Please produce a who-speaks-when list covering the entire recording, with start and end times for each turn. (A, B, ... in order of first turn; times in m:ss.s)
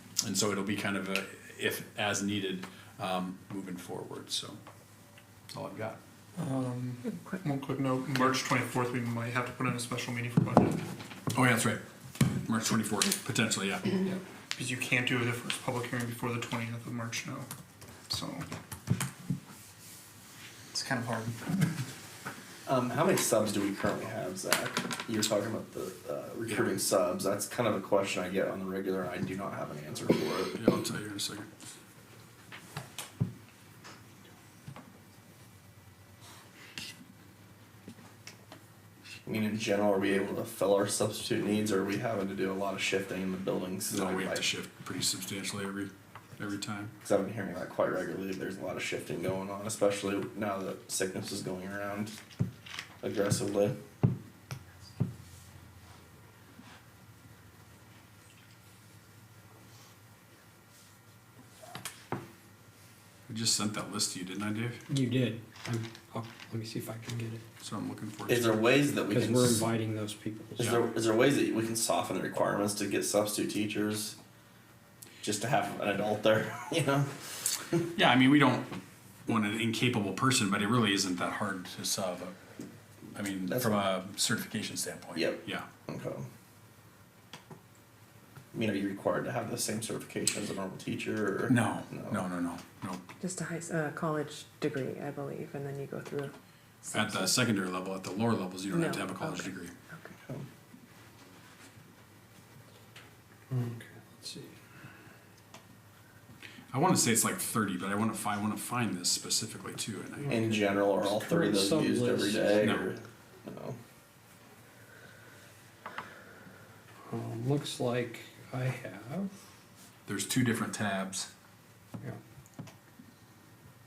0:00.2-0:04.6 A
0:05.5-0:06.0 A
0:06.4-0:10.8 B
0:07.0-0:07.4 C
0:11.3-0:11.8 A
0:12.4-0:14.0 A
0:14.6-0:17.5 B
0:18.1-0:18.4 B
0:20.7-0:21.6 B
0:22.7-0:30.7 D
0:26.5-0:26.7 A
0:30.6-0:31.5 A
0:39.3-0:44.5 D
0:43.9-0:46.9 A
0:47.0-0:52.2 D
0:53.0-0:53.8 D
1:03.3-1:04.8 A
1:04.9-1:07.4 E
1:07.6-1:08.7 A
1:08.3-1:09.6 D
1:09.1-1:10.8 E
1:10.6-1:14.2 D
1:15.2-1:17.8 D
1:18.0-1:22.4 A
1:23.2-1:25.7 A
1:23.5-1:23.8 D
1:25.2-1:26.3 D
1:28.5-1:32.3 D
1:31.5-1:33.0 A
1:33.2-1:36.3 C
1:36.8-1:37.3 C
1:36.9-1:39.7 A
1:38.7-1:40.1 C
1:43.5-1:44.6 E
1:46.7-1:50.6 A
1:50.3-1:53.8 D
1:51.0-1:52.5 E
1:52.6-1:52.8 A
1:57.1-1:59.3 E
2:00.1-2:01.3 A